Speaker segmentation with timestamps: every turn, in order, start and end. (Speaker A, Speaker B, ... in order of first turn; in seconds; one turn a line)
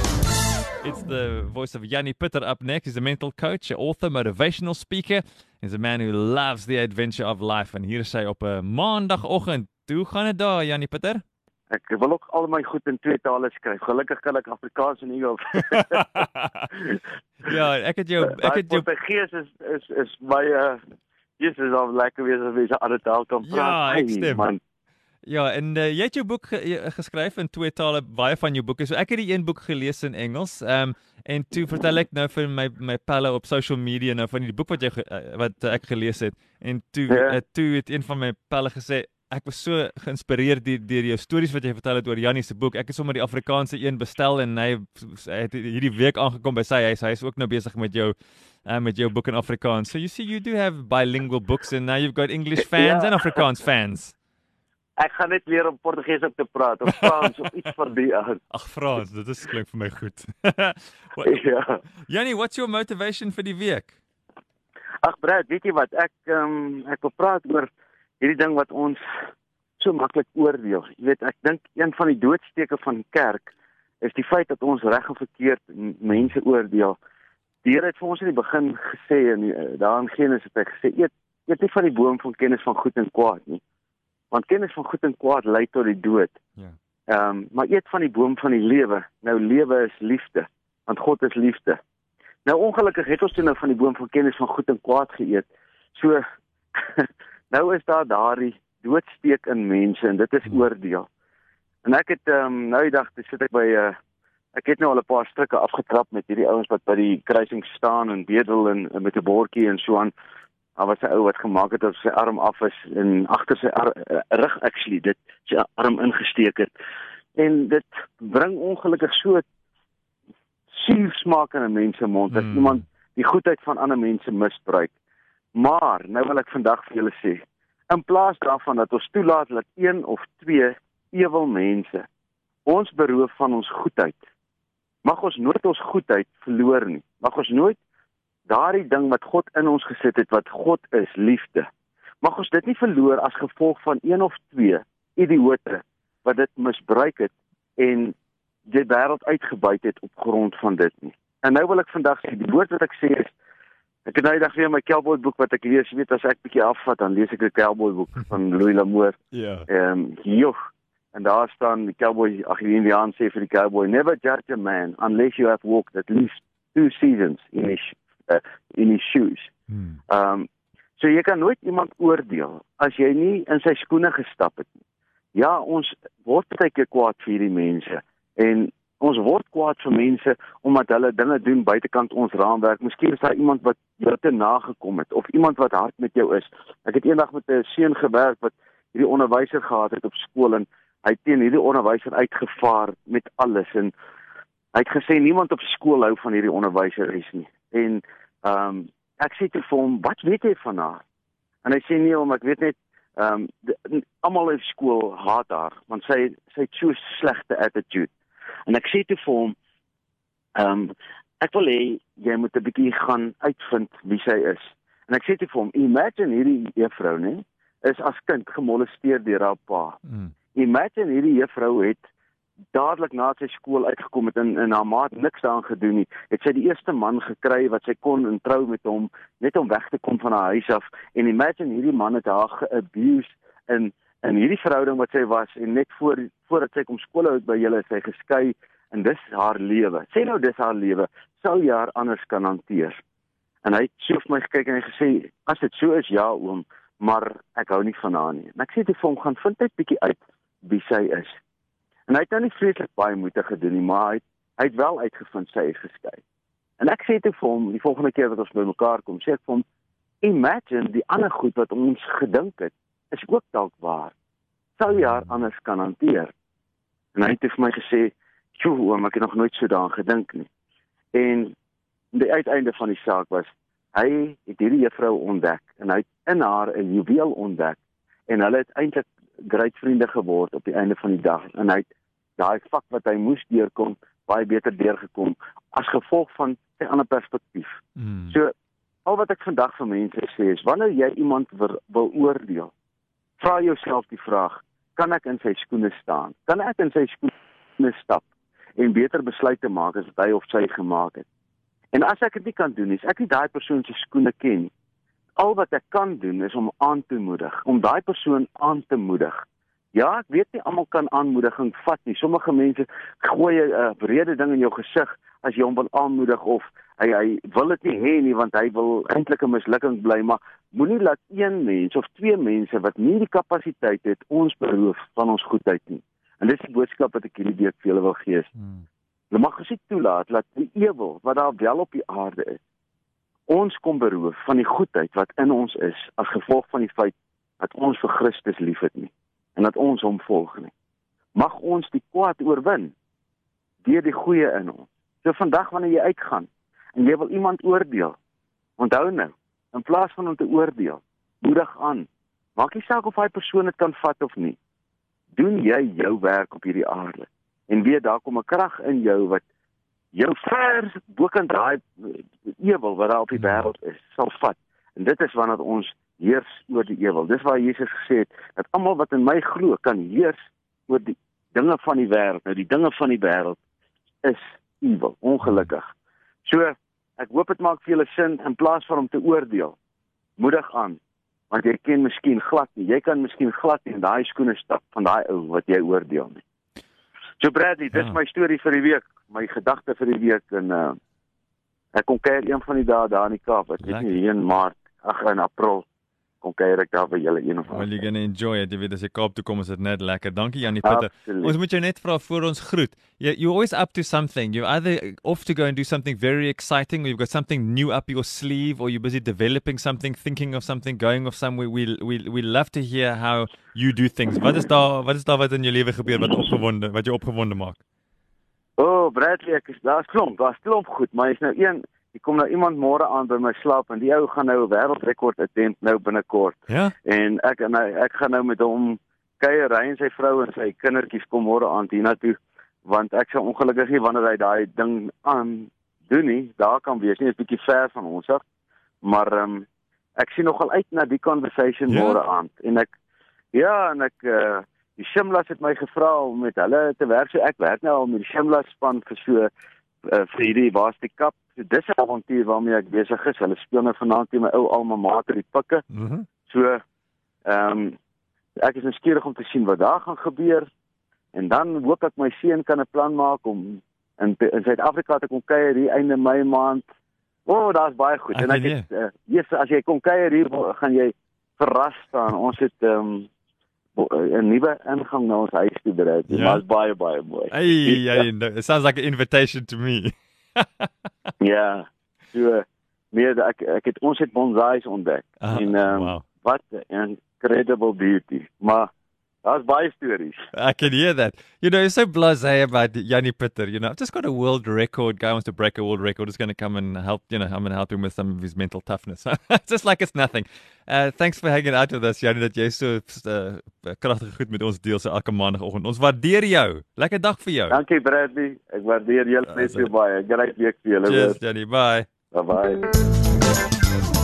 Speaker A: 0.8-11.2
Speaker B: 11.7-16.2
Speaker A: 15.7-16.7
Speaker A: 17.4-18.9
Speaker B: 18.2-20.8
Speaker B: 21.4-24.6
Speaker A: 23.4-24.5
Speaker A: 25.2-54.2
Speaker B: 37.1-37.4
Speaker B: 52.8-53.4
Speaker B: 55.0-58.4
Speaker A: 58.5-61.4
Speaker B: 61.2-61.8
Speaker A: 62.1-63.9
Speaker B: 65.0-67.7
Speaker B: 68.2-69.0
Speaker B: 69.8-73.5
Speaker B: 74.0-77.0
Speaker B: 77.6-83.6
Speaker B: 84.3-86.4
Speaker B: 87.1-91.8
Speaker B: 92.5-96.2
Speaker B: 96.8-101.1
Speaker B: 101.8-104.0
Speaker B: 104.5-110.1
Speaker B: 110.8-116.7
Speaker B: 117.4-119.4
Speaker B: 120.7-124.9
Speaker A: 122.3-122.8
Speaker B: 125.5-132.0
Speaker B: 132.7-134.2
Speaker B: 135.1-137.8
Speaker B: 138.5-141.7
Speaker B: 142.2-148.1
Speaker B: 148.7-153.3
Speaker B: 154.1-160.6
Speaker A: 159.3-159.7
Speaker B: 161.1-169.5
Speaker A: 169.7-170.0
Speaker B: 170.1-170.5
Speaker B: 171.0-174.8
Speaker B: 175.3-193.9
Speaker B: 194.7-201.0
Speaker B: 201.6-208.1
Speaker B: 208.7-209.6
Speaker B: 210.6-220.0
Speaker A: 220.1-220.3
Speaker B: 220.6-222.0
Speaker B: 222.7-243.0
Speaker B: 243.6-251.4
Speaker B: 252.1-256.2
Speaker B: 256.8-259.6
Speaker B: 260.2-264.1
Speaker B: 264.8-266.3
Speaker B: 267.1-270.5
Speaker B: 271.1-271.5
Speaker B: 272.1-281.9
Speaker B: 282.4-288.5
Speaker A: 288.0-288.3
Speaker B: 289.1-292.7
Speaker B: 293.4-298.2
Speaker B: 298.8-301.3
Speaker B: 301.9-304.7
Speaker B: 305.4-309.4
Speaker B: 309.9-328.5
Speaker B: 329.3-332.6
Speaker B: 333.5-340.7
Speaker B: 341.4-342.9
Speaker B: 343.8-348.2
Speaker B: 348.8-354.6
Speaker B: 355.4-359.4
Speaker B: 360.1-373.6
Speaker A: 363.3-363.7
Speaker B: 374.2-375.9
Speaker B: 376.4-379.8
Speaker B: 380.4-381.0
Speaker B: 381.5-386.4
Speaker B: 387.4-391.0
Speaker B: 391.9-395.8
Speaker A: 393.8-394.2
Speaker B: 396.4-398.0
Speaker A: 397.7-417.8
Speaker B: 400.8-401.6
Speaker B: 418.8-438.4
Speaker B: 439.0-439.6
Speaker B: 440.2-442.9
Speaker A: 441.9-442.2
Speaker B: 443.5-449.5
Speaker B: 450.0-455.8
Speaker A: 455.9-456.3
Speaker B: 456.5-456.8
Speaker B: 457.5-458.0
Speaker B: 458.6-460.7
Speaker B: 461.3-466.9
Speaker B: 467.5-473.3
Speaker A: 468.3-468.8
Speaker B: 474.0-478.3
Speaker A: 476.3-476.6
Speaker A: 477.5-480.9
Speaker B: 481.4-488.9
Speaker A: 485.4-486.2
Speaker B: 489.4-490.4
Speaker A: 490.5-507.8
Speaker B: 507.7-511.4
Speaker A: 509.5-509.9
Speaker A: 511.1-512.1
Speaker B: 512.3-512.9